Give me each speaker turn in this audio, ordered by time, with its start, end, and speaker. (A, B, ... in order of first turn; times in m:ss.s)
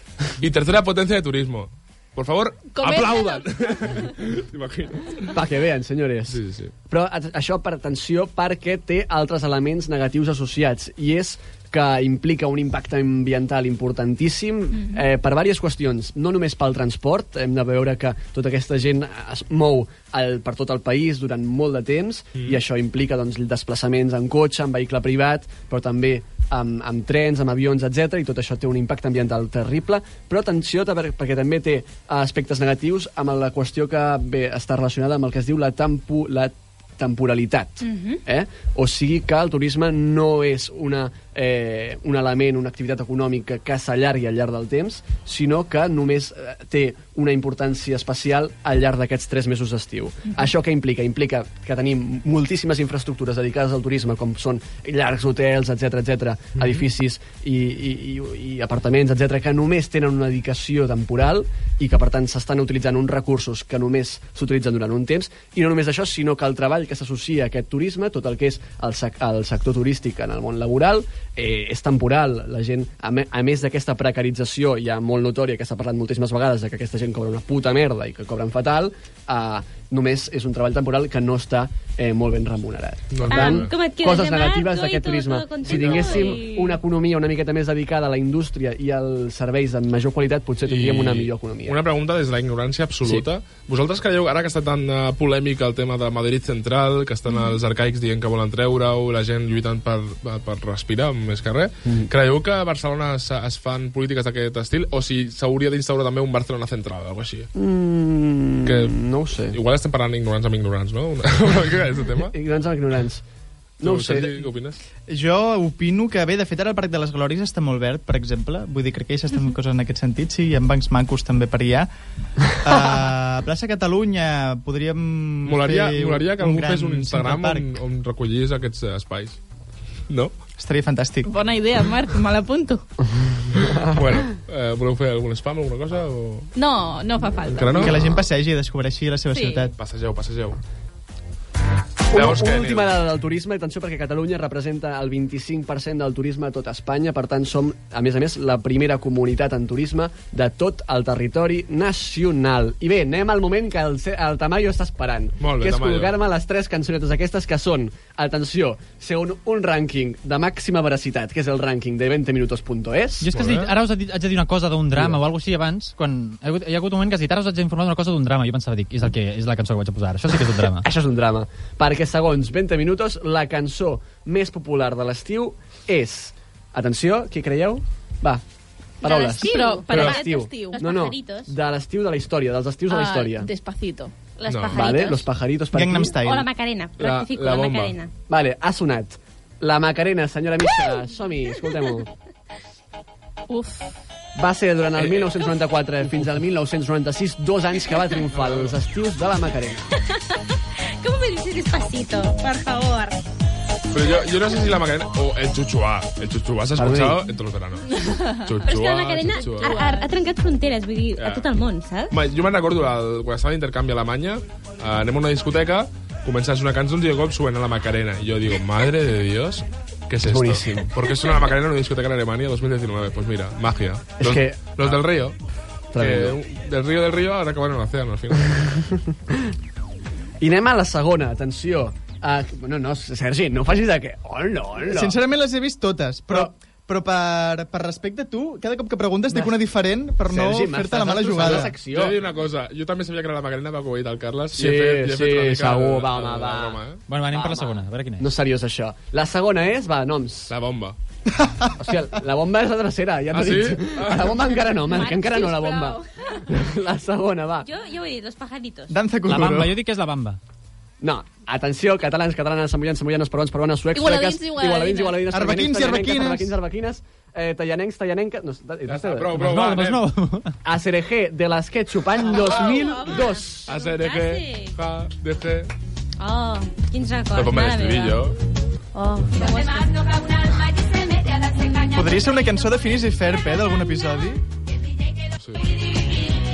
0:00.4-0:05.4 A
0:02.7-0:04.0 B
0:05.3-1:31.8 C
0:06.3-0:06.7 A
0:37.8-0:38.2 D
1:23.1-1:23.7 A
1:23.3-1:26.8 D
1:25.6-1:26.4 A
1:30.6-1:47.5 A
1:47.5-1:49.6 C
1:48.6-1:49.0 A
1:49.5-1:52.3 A
1:52.3-1:53.2 C
1:53.8-1:54.5 C
1:53.8-1:54.8 A
1:55.1-2:01.9 E
2:02.6-2:07.7 E
2:05.4-2:09.4 A
2:10.1-2:10.3 A
2:10.6-2:11.3 E
2:11.2-2:12.8 B
2:13.2-2:14.2 C
2:13.9-2:16.5 A
2:16.6-2:17.9 B
2:17.4-2:18.1 A
2:17.8-2:19.7 E
2:19.3-2:19.7 B
2:19.8-2:20.6 A
2:22.1-2:43.3 C
2:22.1-2:23.0 A
2:35.4-2:36.1 A
2:43.2-2:50.9 F
2:43.3-2:43.7 A
2:44.9-2:45.2 C
2:50.8-2:58.4 C
2:59.0-3:03.5 C
2:59.0-3:01.5 D
2:59.3-3:00.8 B
3:02.9-3:04.1 B
3:04.4-3:05.2 D
3:04.4-3:04.8 A
3:04.7-3:06.2 C
3:05.7-3:06.5 E
3:06.2-3:08.1 D
3:07.0-3:08.0 A
3:08.3-3:12.1 C
3:13.5-3:13.9 B
3:14.4-3:19.9 C
3:14.9-3:15.5 A
3:18.3-3:18.8 A
3:21.0-3:23.2 D
3:23.9-3:29.9 A
3:26.8-3:27.2 C
3:28.6-3:32.1 D
3:29.5-3:30.1 B
3:31.1-3:31.5 A
3:32.1-3:45.4 A
3:40.2-3:40.9 C
3:44.2-3:45.0 C
3:45.9-3:46.4 C
3:46.0-3:48.7 A
3:50.4-3:55.1 C
3:54.9-4:01.8 E
4:00.3-4:02.2 C
4:01.8-4:07.0 A
4:04.5-4:10.5 C
4:07.1-4:08.3 F
4:10.5-4:11.0 A
4:11.8-4:17.7 C
4:13.3-4:14.6 A
4:14.8-4:16.0 D
4:17.6-4:19.0 D
4:18.9-4:19.8 E
4:19.3-4:20.4 F
4:21.0-4:29.4 C
4:23.9-4:25.3 B
4:25.3-4:26.5 E
4:28.8-4:30.0 A
4:29.3-4:30.5 F
4:30.6-4:33.7 C
4:32.3-4:34.7 D
4:33.6-4:35.7 A
4:36.2-4:38.2 D
4:37.3-4:38.3 A
4:38.9-4:42.0 D
4:41.9-4:44.4 E
4:45.4-4:45.6 A